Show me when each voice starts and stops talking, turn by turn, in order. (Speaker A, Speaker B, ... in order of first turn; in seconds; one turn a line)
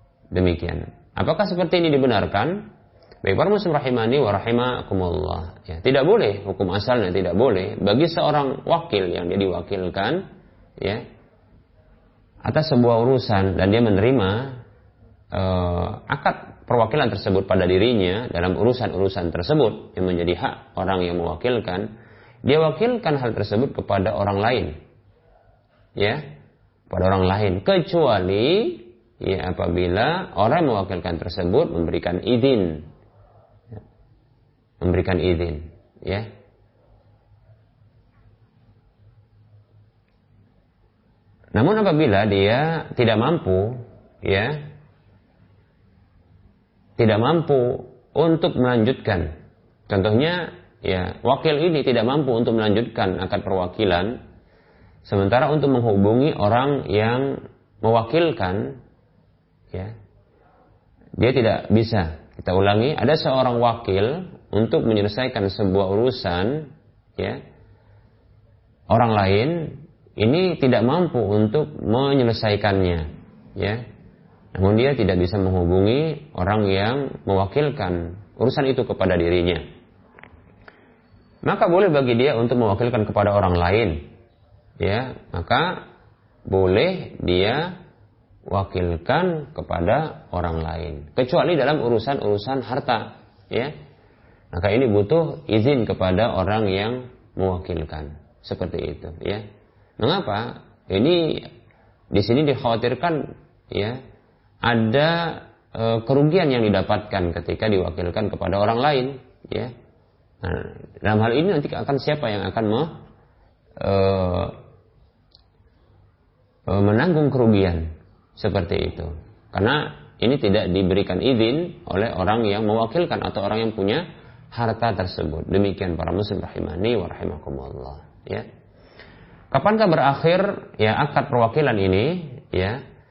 Speaker A: 0.3-2.7
Speaker A: 3.2-10.2
Speaker A: 12.4-14.6
Speaker A: 15.3-21.9
Speaker A: 22.4-24.7
Speaker A: 26.0-26.2
Speaker A: 26.9-32.9
Speaker A: 34.8-36.3
Speaker A: 41.5-44.6
Speaker A: 47.0-49.3
Speaker A: 49.9-54.2
Speaker A: 55.1-58.8
Speaker A: 61.2-67.4
Speaker A: 68.9-73.1
Speaker A: 74.5-79.6
Speaker A: 81.5-84.0
Speaker A: 84.8-85.8
Speaker A: 86.5-87.7
Speaker A: 88.5-93.7
Speaker A: 94.5-99.4
Speaker A: 100.0-101.5
Speaker A: 102.1-104.0
Speaker A: 104.7-109.7
Speaker A: 110.4-113.0
Speaker A: 113.8-114.5
Speaker A: 116.7-117.9
Speaker A: 118.4-128.5
Speaker A: 129.5-132.8